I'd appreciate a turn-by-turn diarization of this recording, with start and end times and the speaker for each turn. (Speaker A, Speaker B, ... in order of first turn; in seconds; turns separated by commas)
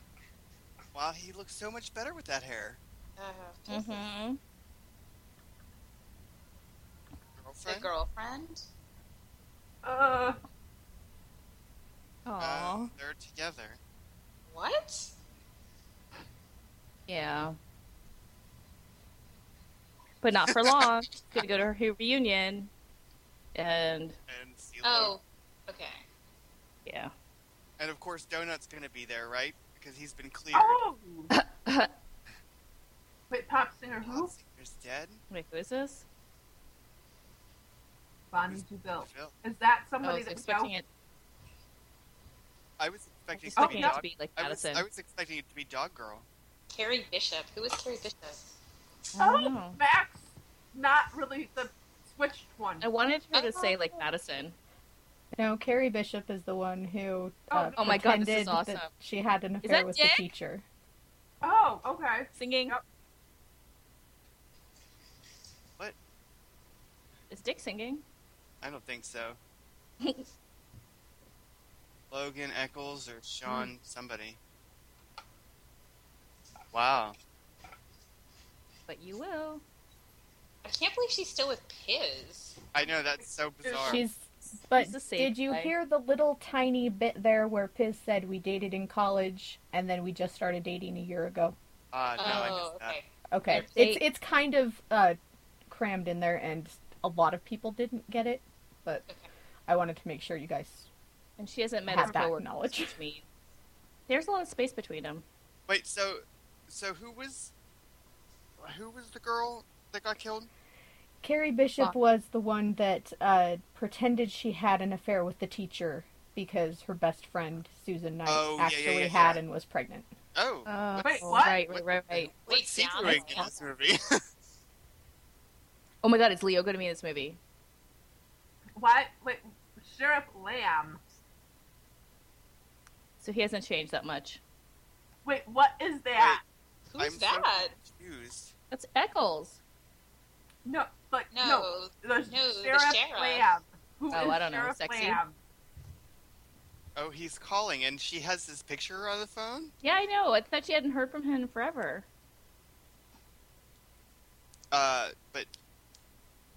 Speaker A: 0.9-2.8, Speaker B: 3.2-4.1, Speaker C: 3.7-4.4, Speaker A: 7.4-7.9, Speaker B: 7.6-8.6, Speaker D: 9.8-10.4, Speaker C: 12.2-12.9, Speaker A: 12.4-13.8, Speaker B: 14.5-15.1, Speaker C: 17.1-17.6, Speaker C: 20.2-22.7, Speaker A: 20.4-20.8, Speaker C: 23.5-24.2, Speaker A: 24.3-25.1, Speaker B: 24.8-26.0, Speaker C: 26.9-27.1, Speaker A: 27.8-30.8, Speaker D: 30.5-31.3, Speaker C: 31.3-31.9, Speaker D: 33.3-34.3, Speaker A: 34.0-35.2, Speaker C: 35.3-36.0, Speaker D: 38.3-40.7, Speaker A: 38.5-39.3, Speaker C: 40.0-40.9, Speaker A: 42.8-46.2, Speaker C: 43.3-44.9, Speaker D: 43.6-44.0, Speaker B: 46.7-48.5, Speaker C: 49.1-49.8, Speaker D: 49.2-52.9, Speaker C: 52.8-54.5, Speaker B: 53.3-53.9, Speaker E: 55.3-60.6, Speaker D: 57.5-57.8, Speaker C: 57.8-58.9, Speaker C: 59.6-60.3, Speaker D: 61.4-62.8, Speaker C: 62.4-62.8, Speaker C: 67.3-68.0, Speaker A: 68.6-69.4, Speaker A: 72.1-74.4, Speaker A: 76.7-77.2, Speaker C: 78.9-79.6, Speaker B: 80.6-82.6, Speaker A: 82.7-84.0, Speaker D: 83.6-84.0, Speaker E: 83.8-91.6, Speaker C: 84.8-85.8, Speaker A: 91.9-93.0, Speaker B: 92.2-93.1, Speaker E: 93.3-99.1, Speaker C: 93.5-94.0, Speaker E: 99.7-100.9, Speaker C: 101.4-103.2, Speaker E: 101.9-103.0, Speaker C: 104.1-105.2, Speaker A: 105.7-107.5, Speaker A: 108.6-110.5, Speaker E: 111.2-120.1, Speaker A: 118.2-119.4, Speaker A: 120.3-124.2, Speaker C: 120.7-122.3, Speaker D: 121.0-121.6, Speaker B: 122.5-124.0, Speaker C: 126.0-127.4, Speaker D: 128.8-131.0, Speaker C: 133.2-134.4, Speaker D: 135.2-136.4, Speaker A: 136.2-136.4, Speaker B: 136.9-137.7, Speaker A: 137.0-138.5, Speaker C: 138.7-139.6, Speaker D: 140.7-145.4, Speaker B: 141.3-143.5, Speaker C: 144.1-145.2, Speaker A: 146.9-149.7, Speaker C: 149.8-152.1, Speaker A: 154.7-155.5